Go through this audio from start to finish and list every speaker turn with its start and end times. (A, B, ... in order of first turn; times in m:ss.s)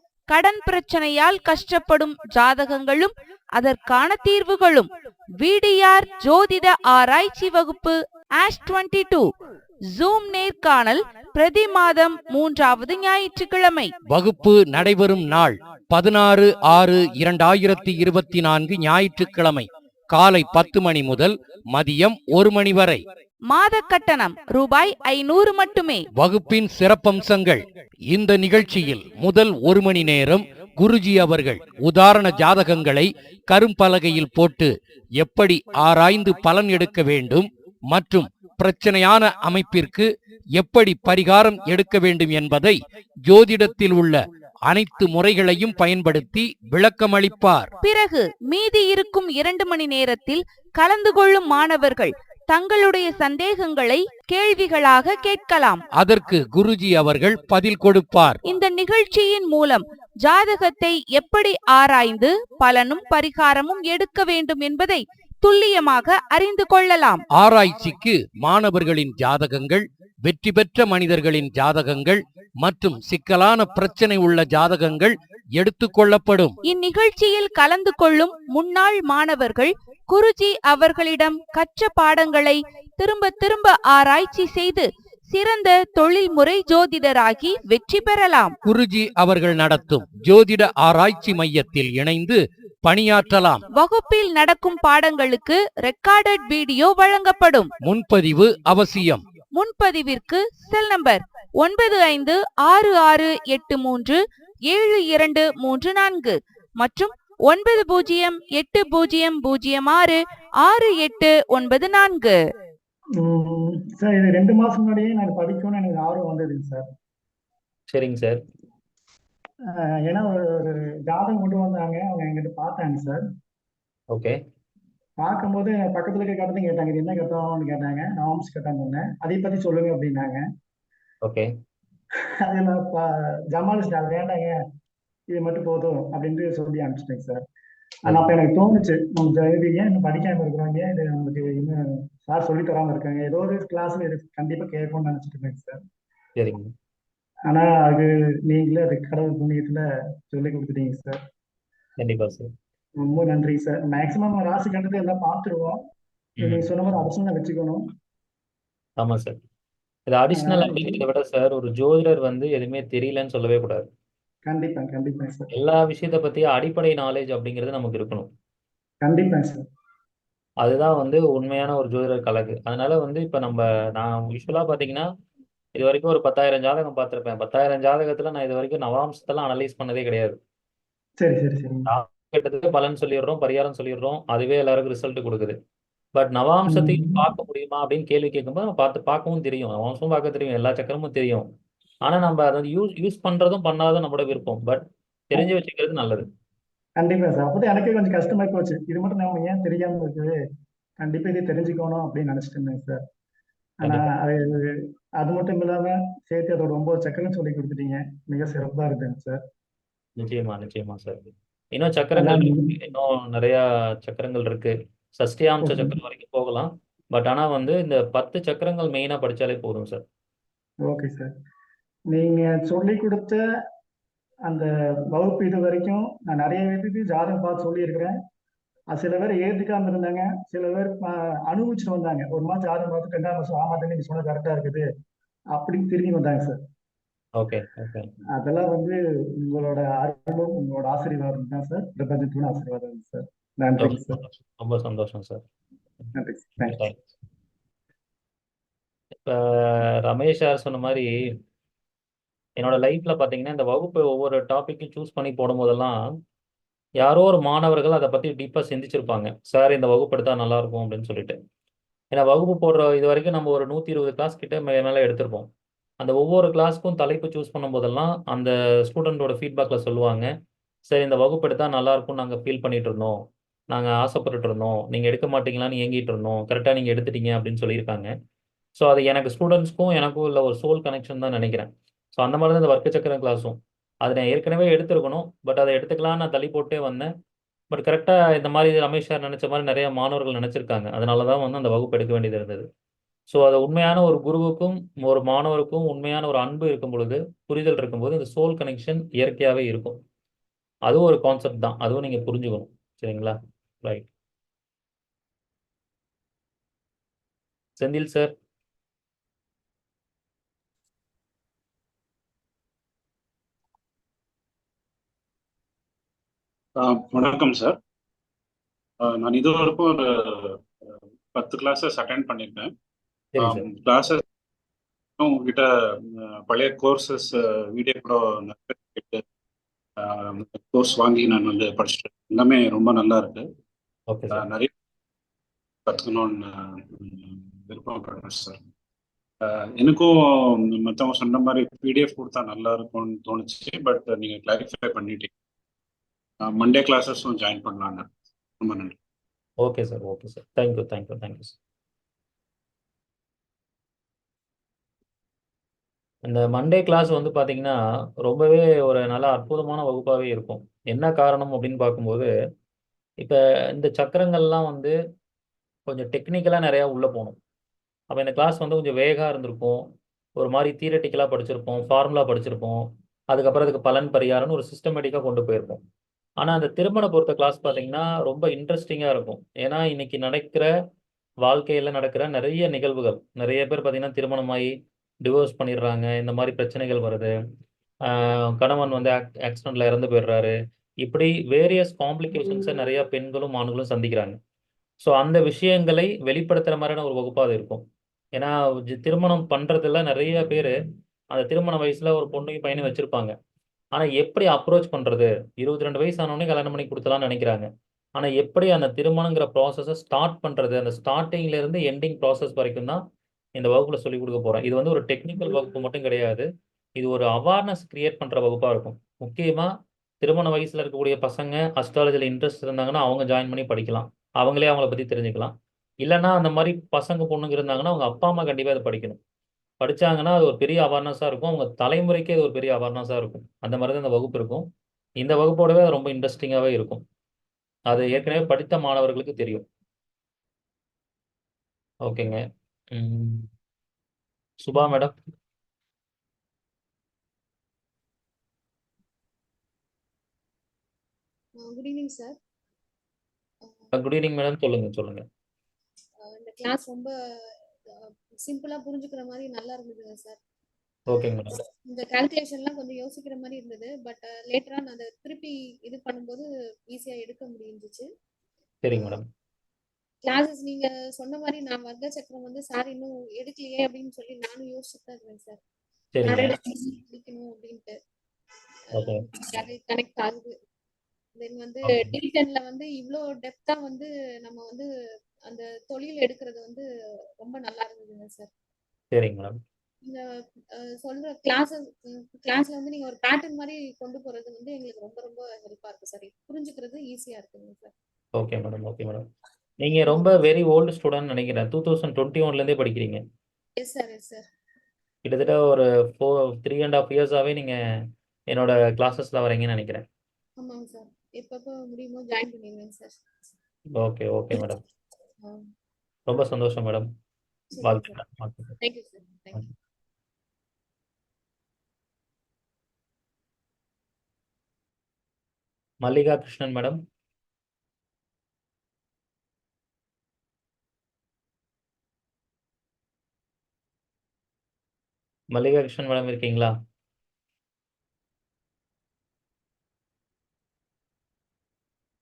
0:00.3-0:09.2 A
0:09.9-0:13.9 A
0:14.1-0:23.0 B
0:23.5-0:26.0 A
0:26.2-0:47.7 B
0:47.8-0:55.8 A
0:56.0-0:58.4 B
0:58.4-1:07.2 A
1:07.4-1:16.6 B
1:16.6-1:28.6 A
1:28.6-1:33.6 B
1:33.7-1:37.7 A
1:37.8-1:39.2 B
1:39.6-1:44.2 A
1:44.7-1:52.4 A
1:53.2-1:56.9 C
1:57.9-1:58.4 D
1:59.7-2:03.2 C
2:04.1-2:04.4 D
2:05.2-2:10.4 C
2:11.2-2:11.5 D
2:12.5-2:14.6 C
2:15.3-2:17.4 C
2:18.1-2:18.3 D
2:18.1-2:25.8 C
2:26.4-2:26.7 D
2:27.5-2:31.2 C
2:32.0-2:32.5 D
2:33.0-2:35.8 C
2:36.4-2:36.7 D
2:36.4-2:37.9 C
2:39.0-2:39.4 D
2:40.1-2:43.9 D
2:40.4-2:41.0 C
2:44.5-2:45.5 C
2:45.5-2:48.3 D
2:49.0-2:49.6 C
2:50.6-2:55.1 D
2:55.8-3:00.4 D
3:01.2-3:01.9 C
3:01.9-3:05.6 D
3:06.2-3:11.5 D
3:06.7-3:07.2 C
3:12.0-3:16.2 D
3:17.0-3:20.3 C
3:21.0-3:23.0 C
3:23.8-3:24.1 D
3:23.8-3:29.4 C
3:30.2-3:40.0 D
3:32.2-3:32.7 C
3:35.6-3:36.0 C
3:40.9-3:41.3 C
3:42.1-3:43.4 C
3:44.5-3:48.2 C
3:48.9-3:54.9 C
3:55.5-3:56.6 C
3:57.4-3:58.1 D
3:58.4-4:04.2 C
4:03.8-4:05.4 D
4:06.2-4:06.8 C
4:06.6-4:07.0 D
4:09.2-4:11.1 D
4:12.6-4:15.9 D
4:17.0-4:21.4 D
4:22.1-4:25.5 D
4:26.0-4:30.3 D
4:30.9-4:38.1 D
4:38.8-4:47.1 D
4:47.7-4:52.7 D
4:53.3-5:00.0 D
5:00.9-5:04.1 D
5:07.8-5:08.3 D
5:16.8-5:17.8 E
5:19.0-5:20.6 E
5:21.3-5:22.7 E
5:23.3-5:23.7 D
5:23.4-5:24.2 E
5:25.2-5:29.2 E
5:30.0-5:33.5 E
5:34.1-5:34.4 D
5:34.3-5:34.7 E
5:35.9-5:38.6 E
5:39.4-5:45.3 E
5:46.4-5:48.1 E
5:48.6-5:49.0 E
5:49.6-5:51.6 D
5:56.2-6:02.3 D
6:03.2-6:05.0 D
6:05.9-6:07.4 D
6:08.1-6:15.8 D
6:16.4-6:20.7 D
6:21.4-6:24.7 D
6:25.2-6:27.3 D
6:28.1-6:30.5 D
6:31.0-6:34.4 D
6:35.0-6:40.7 D
6:41.3-6:43.3 D
6:44.0-6:53.0 D
6:53.6-6:56.5 D
6:57.0-6:59.7 D
7:00.2-7:09.2 D
7:09.8-7:14.7 D
7:15.2-7:17.0 D
7:17.9-7:19.7 D
7:22.0-7:22.4 D
7:22.9-7:23.5 D
7:24.6-7:25.1 D
7:31.6-7:32.4 F
7:33.6-7:33.9 F
7:33.9-7:35.2 D
7:36.2-7:37.1 F
7:37.9-7:40.4 F
7:41.1-7:41.5 D
7:41.9-7:48.1 F
7:48.8-7:49.3 D
7:50.3-7:55.6 F
7:56.1-7:56.6 D
7:56.2-7:58.0 F
7:58.9-8:00.6 F
7:58.9-7:59.2 D
8:01.4-8:04.9 F
8:01.8-8:02.2 D
8:05.5-8:06.8 F
8:07.4-8:08.5 F
8:09.1-8:09.6 D
8:10.8-8:17.9 F
8:18.4-8:19.2 D
8:19.8-8:23.2 D
8:20.1-8:20.4 F
8:23.8-8:24.5 F
8:25.2-8:27.8 D
8:28.5-8:30.0 D
8:30.6-8:33.4 F
8:33.9-8:34.8 D
8:35.4-8:35.7 F
8:36.3-8:37.1 D
8:37.7-8:38.2 F
8:37.8-8:38.7 D
8:38.8-8:39.6 F
8:46.0-8:47.0 D
8:55.5-8:56.7 D